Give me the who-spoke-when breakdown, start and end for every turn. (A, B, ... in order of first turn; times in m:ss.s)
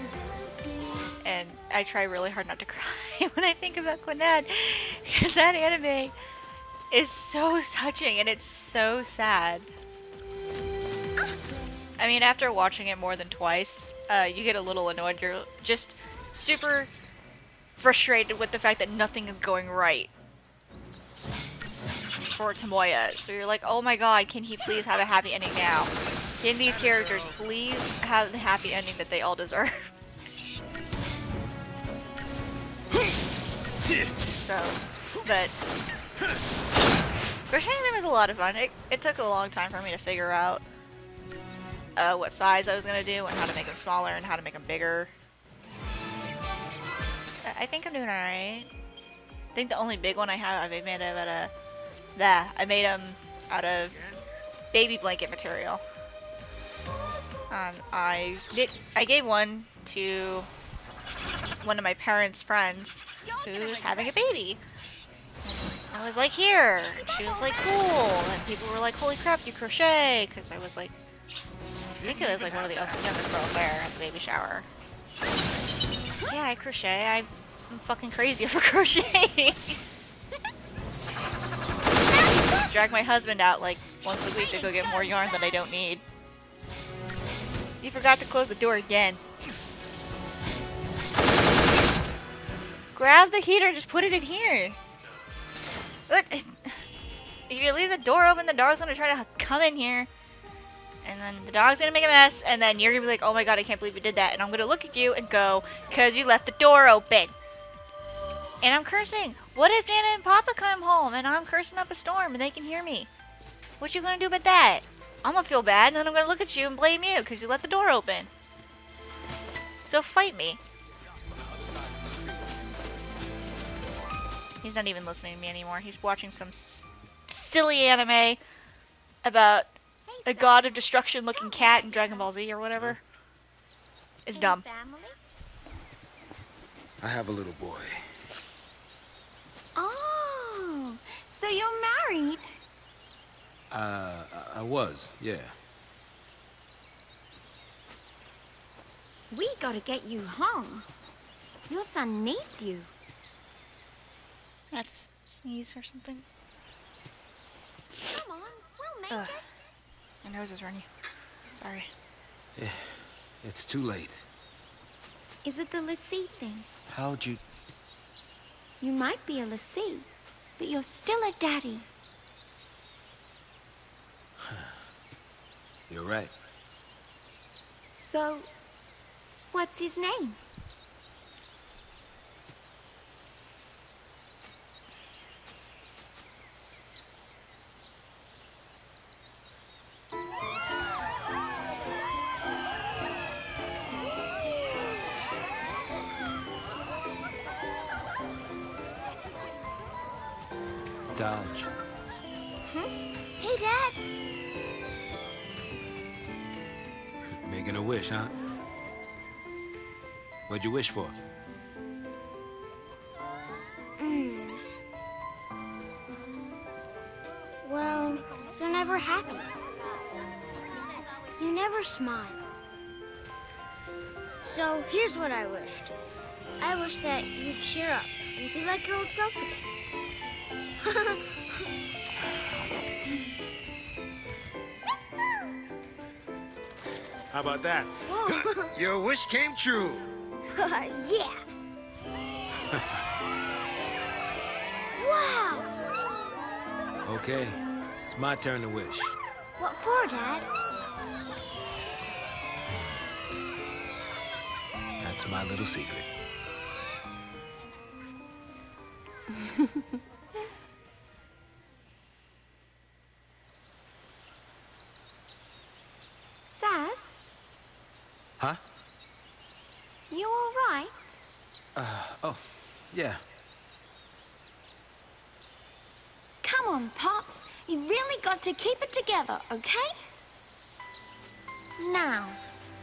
0:01.2-0:06.2 A
0:06.9-0:09.7 A
0:12.0-0:16.9 A
0:17.8-0:20.1 A
0:22.2-0:29.9 A
0:26.7-0:27.4 B
0:34.4-0:35.6 A
0:37.5-0:40.6 A
0:42.0-0:45.1 A
0:47.4-0:48.7 A
0:49.6-0:51.5 A
0:52.2-0:54.0 A
0:54.7-0:55.8 A
0:57.5-1:00.5 A
1:01.6-1:04.6 A
1:03.2-1:04.3 C
1:05.5-1:10.9 A
1:12.0-1:14.7 A
1:16.3-1:19.8 A
1:22.5-1:26.0 A
1:24.4-1:25.2 C
1:27.8-1:29.2 A
1:33.0-1:34.8 A
1:36.1-1:36.8 A
1:37.5-1:40.1 A
1:41.0-1:47.3 A
1:48.6-1:53.1 A
1:53.8-1:58.3 A
1:59.9-2:00.6 A
2:01.3-2:02.5 B
2:04.6-2:08.4 A
2:09.2-2:13.0 A
2:10.1-2:12.3 C
2:14.3-2:14.6 A
2:14.4-2:15.2 C
2:17.0-2:18.1 B
2:19.8-2:22.6 C
2:23.7-2:25.6 B
2:29.3-2:30.9 C
2:31.7-2:32.9 C
2:34.7-2:36.2 A
2:38.0-2:39.6 C
2:39.1-2:39.4 A
2:40.2-2:40.9 A
2:41.6-2:41.9 A
2:42.6-2:44.2 B
2:45.4-2:46.7 C
2:46.9-2:47.4 B
2:48.8-2:50.1 C
2:50.6-2:51.9 C
2:54.4-2:54.7 B
2:55.9-2:56.3 B
2:58.0-2:58.5 C
2:59.5-3:00.4 C
3:21.2-3:21.7 B
3:22.7-3:24.0 D
3:27.3-3:28.3 B
3:30.5-3:31.2 B
3:34.0-3:34.6 D
3:37.6-3:39.5 D
3:41.4-3:42.4 D
3:44.4-3:45.9 D
3:46.6-3:49.7 D
3:50.8-3:51.4 D
3:57.3-4:00.1 B
3:58.1-3:58.7 D
4:00.5-4:01.4 D
4:02.6-4:03.0 B
4:05.0-4:05.7 D
4:07.0-4:09.2 B
4:09.6-4:10.5 D
4:12.7-4:13.1 B
4:15.0-4:16.1 B
4:26.5-4:27.2 C
4:30.1-4:31.2 C
4:31.8-4:33.2 B
4:36.4-4:40.0 C
4:41.8-4:42.4 C